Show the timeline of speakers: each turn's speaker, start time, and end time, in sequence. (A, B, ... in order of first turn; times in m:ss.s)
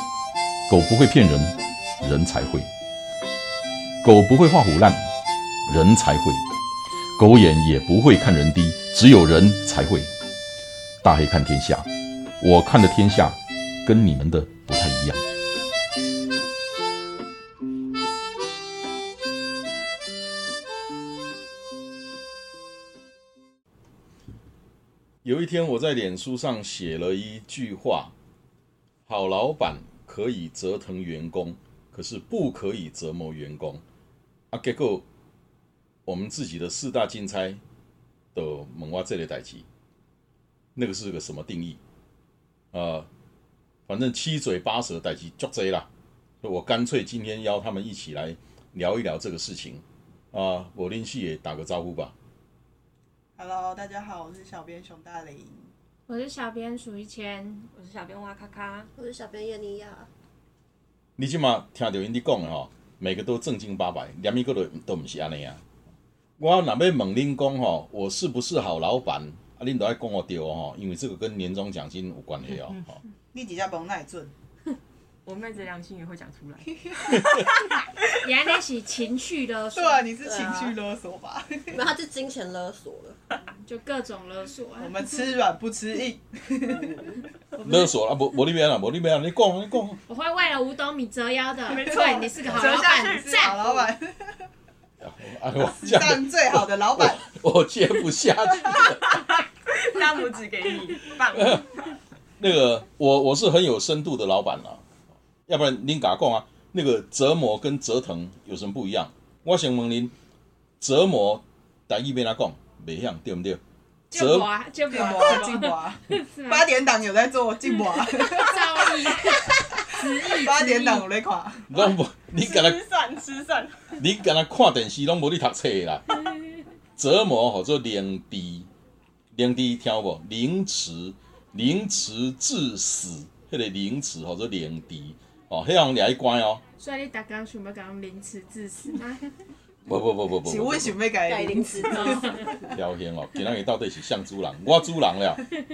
0:00.7-0:02.7 A
0:04.0-0:05.1 A
0:05.7-0:06.4 A
0:07.2-0:10.1 A
0:11.0-0:11.9 A
0:12.4-0:15.2 A
0:25.2-0:28.1 A
0:29.1-0:33.8 A
0:34.5-0:35.0 A
0:36.1-0:37.6 A
0:38.3-0:39.7 A
0:40.8-0:41.8 A
0:42.7-0:43.1 A
0:43.9-0:45.9 A
0:46.4-0:52.1 A
0:53.4-0:55.7 B
0:56.1-0:57.7 C
0:57.8-0:58.9 D
0:59.0-1:00.1 E
1:01.2-1:05.6 A
1:06.4-1:13.0 A
1:13.3-1:14.3 B
1:15.2-1:17.4 D
1:17.1-1:17.4 A
1:18.2-1:20.0 C
1:19.8-1:21.9 B
1:20.2-1:20.8 E
1:21.7-1:23.2 E
1:23.6-1:25.1 C
1:24.8-1:27.0 B
1:27.6-1:30.0 A
1:30.1-1:33.6 C
1:31.7-1:33.8 D
1:31.8-1:34.4 B
1:35.0-1:39.3 A
1:35.8-1:37.2 B
1:39.7-1:41.9 D
1:41.3-1:41.6 A
1:42.4-1:44.8 A
1:45.5-1:50.1 A
1:50.8-1:53.6 A
1:54.1-1:56.6 C
1:54.1-1:54.5 A
1:54.9-2:01.7 B
1:58.0-2:01.1 C
2:01.7-2:02.8 A
2:01.7-2:04.0 D
2:04.0-2:06.2 A
2:07.0-2:08.7 A
2:09.3-2:16.6 A
2:16.8-2:19.2 C
2:19.9-2:21.0 A
2:20.4-2:22.8 B
2:21.2-2:22.5 E
2:22.0-2:22.3 C
2:22.7-2:25.5 A